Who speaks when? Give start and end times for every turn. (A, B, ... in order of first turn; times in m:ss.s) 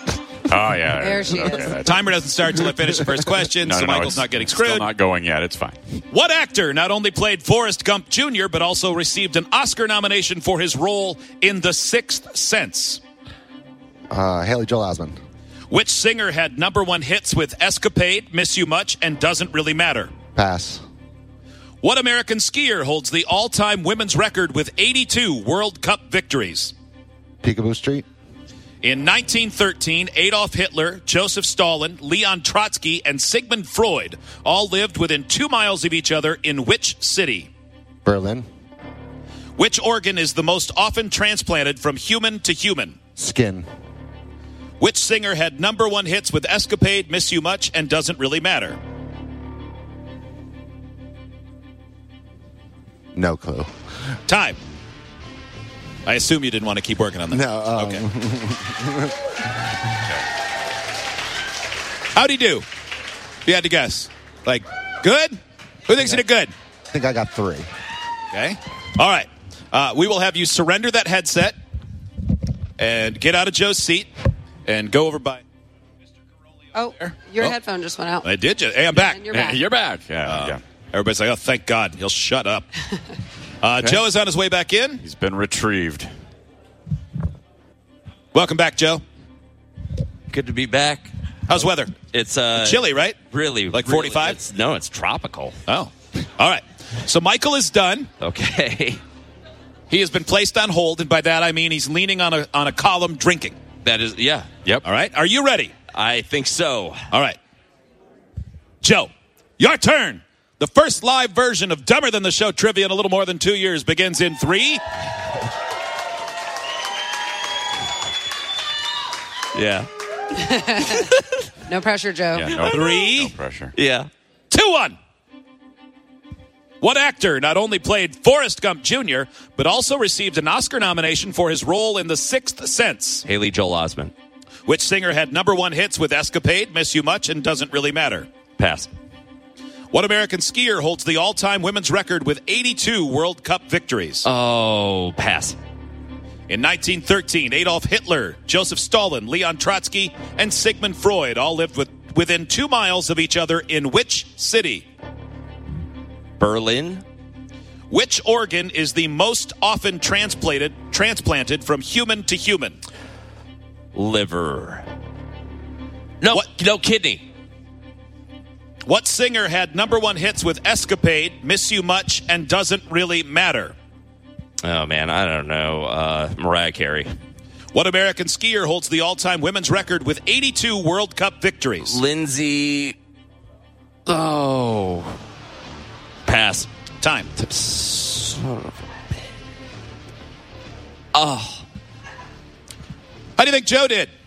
0:00.5-0:02.0 A
0:01.0-0:01.8 B
0:01.8-0:04.9 C
0:03.6-0:05.8 A
0:06.1-0:13.0 C
0:14.1-0:15.2 D
0:15.7-0:20.1 C
0:20.4-0:20.8 D
0:21.8-0:26.7 C
0:27.4-0:28.0 D
0:28.8-0:37.5 C
0:38.0-0:38.5 D
0:39.6-0:43.0 C
0:43.2-0:43.7 D
0:44.8-0:48.8 C
0:53.2-0:53.7 D
0:54.3-0:54.6 C
0:56.1-0:58.0 C
0:57.3-0:59.1 D
1:02.2-1:02.7 C
1:03.5-1:05.4 C
1:05.9-1:06.5 C
1:06.9-1:07.7 D
1:08.3-1:11.6 C
1:12.8-1:14.1 C
1:14.7-1:15.4 C
1:16.8-1:18.3 B
1:16.9-1:17.6 C
1:18.2-1:19.2 C
1:19.0-1:19.6 B
1:19.2-1:20.6 A
1:20.2-1:22.7 C
1:23.6-1:25.0 C
1:25.0-1:26.1 A
1:28.3-1:29.0 C
1:30.3-1:31.1 E
1:31.5-1:31.9 C
1:32.1-1:35.6 E
1:32.6-1:33.2 C
1:33.7-1:34.4 C
1:35.7-1:38.1 C
1:38.2-1:39.0 E
1:39.9-1:43.6 C
1:43.8-1:44.5 E
1:44.8-1:45.7 C
1:45.9-1:47.0 E
1:47.1-1:47.4 C
1:48.8-1:54.8 C
1:59.5-1:59.9 E
2:01.7-2:02.7 B
2:02.3-2:03.7 A
2:02.7-2:03.3 C
2:03.8-2:04.1 E
2:04.5-2:05.0 C
2:06.8-2:13.2 C
2:13.3-2:14.1 E
2:14.7-2:18.3 C
2:18.6-2:18.9 E
2:19.9-2:24.3 C
2:24.2-2:25.6 E
2:26.5-2:34.9 C
2:36.4-2:37.0 E
2:37.9-2:42.8 C
2:44.0-2:44.9 E
2:46.2-2:47.2 E
2:48.8-2:53.8 C
2:54.6-2:57.1 E
2:57.7-3:02.0 C
3:01.8-3:03.0 E
3:04.1-3:05.2 E
3:06.2-3:06.7 E
3:07.0-3:07.3 C
3:07.4-3:08.8 E
3:11.1-3:11.7 E
3:13.4-3:14.1 C